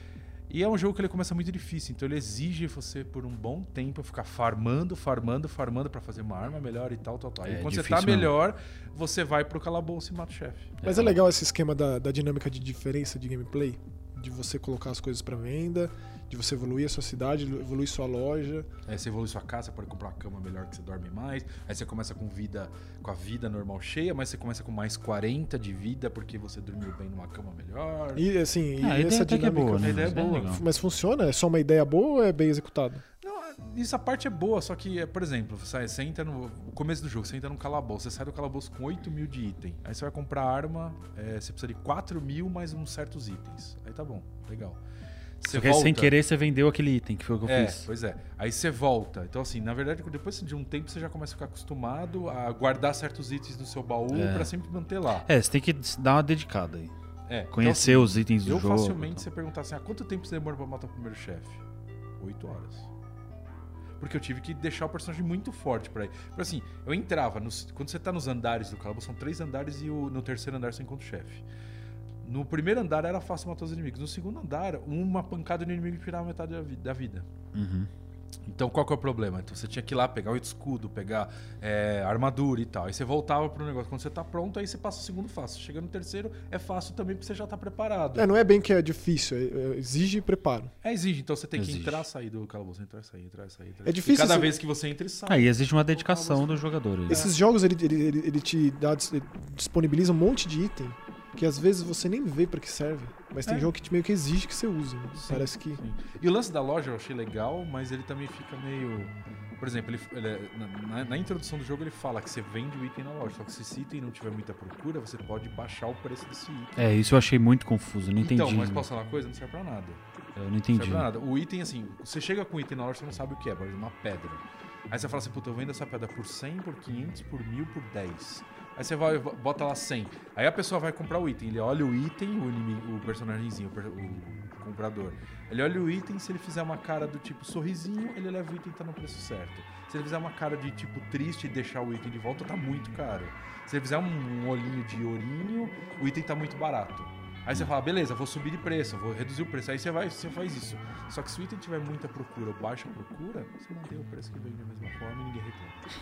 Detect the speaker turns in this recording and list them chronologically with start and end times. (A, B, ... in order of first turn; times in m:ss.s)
0:00.5-0:11.0 A
0:07.4-0:08.3 B
0:10.8-0:11.1 B
0:10.8-0:18.7 C
0:18.9-0:28.3 A
0:28.2-0:33.0 C
0:28.8-0:30.6 B
0:29.7-0:30.6 A
0:33.2-0:44.8 A
0:45.4-0:46.2 A
0:45.5-0:47.9 B
0:47.4-0:55.3 A
0:54.1-0:54.5 B
0:55.2-0:56.9 B
0:57.3-1:01.6 A
0:57.5-0:59.2 B
1:02.2-1:02.9 A
1:04.0-1:11.4 A
1:12.2-1:17.3 A
1:17.5-1:17.9 B
1:18.5-1:28.3 A
1:28.2-1:30.7 C
1:30.8-1:37.3 A
1:31.6-1:32.1 B
1:33.8-1:34.5 C
1:35.3-1:37.3 B
1:37.1-1:45.8 C
1:45.2-1:56.8 A
1:56.8-1:58.9 B
1:58.2-2:00.0 A
2:00.4-2:01.1 B
2:00.7-2:35.8 A